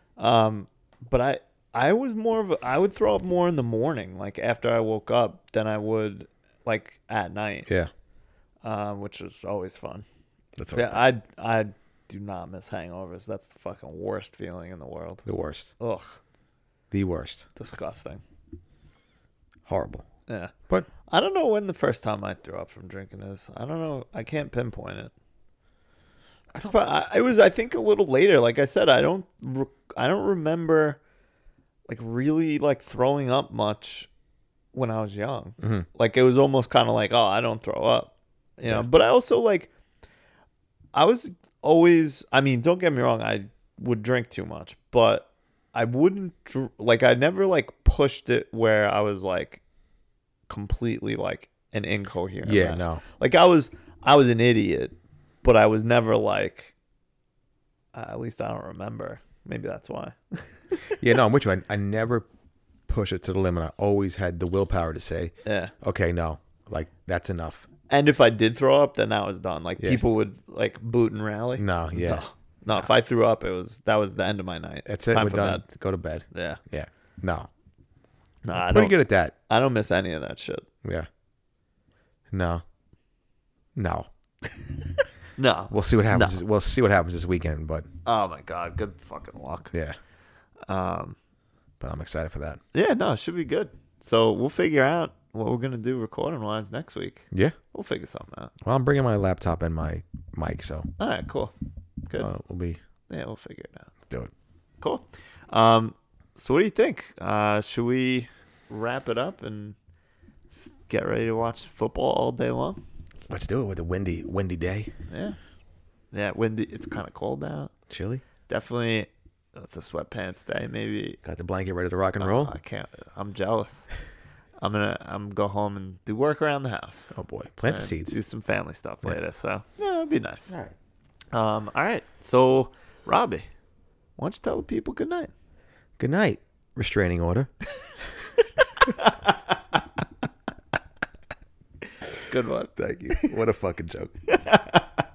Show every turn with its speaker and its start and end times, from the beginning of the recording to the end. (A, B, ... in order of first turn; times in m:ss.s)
0:00.2-0:07.7 A
0:08.6-0:10.0 A
0:10.6-0:11.1 B
0:10.7-0:15.2 A
0:15.2-0:15.7 B
0:15.8-0:16.2 A
0:16.9-0:17.5 B
0:17.6-0:18.2 A
0:19.7-0:20.0 B
0:20.3-0:20.5 A
0:21.1-0:25.1 A
0:26.5-0:26.8 B
0:26.6-0:31.0 A
0:31.9-0:34.1 A
0:34.7-0:39.7 A
0:35.6-0:35.9 B
0:40.9-0:49.6 A
0:50.5-0:56.7 A
0:52.4-0:53.0 B
0:57.9-1:01.0 A
1:01.0-1:02.3 B
1:02.9-1:07.7 B
1:05.4-1:05.7 A
1:07.9-1:15.6 A
1:11.6-1:12.2 B
1:14.9-1:17.5 B
1:16.3-1:16.6 A
1:18.4-1:20.7 A
1:18.5-1:19.4 B
1:22.3-1:22.6 B
1:23.8-1:24.1 B
1:25.4-1:26.4 A
1:25.7-1:27.9 B
1:28.1-1:29.7 A
1:29.7-1:30.0 B
1:30.7-1:31.2 A
1:31.8-1:32.6 B
1:32.7-1:38.5 A
1:38.6-1:40.9 B
1:41.0-1:41.5 A
1:42.2-1:42.8 B
1:43.1-1:43.9 A
1:44.8-1:49.8 A
1:50.9-1:52.8 A
1:53.3-1:54.9 B
1:55.1-1:55.4 A
1:56.1-1:57.7 A
1:57.9-1:58.2 B
1:58.5-2:01.2 A
2:01.2-2:02.5 B
2:02.2-2:03.9 A
2:04.6-2:07.2 A
2:07.1-2:08.2 B
2:07.7-2:10.5 A
2:11.3-2:13.5 A
2:14.2-2:15.3 A
2:16.0-2:17.5 B
2:18.6-2:19.6 A
2:22.3-2:23.3 A
2:22.8-2:24.2 B
2:24.3-2:24.9 A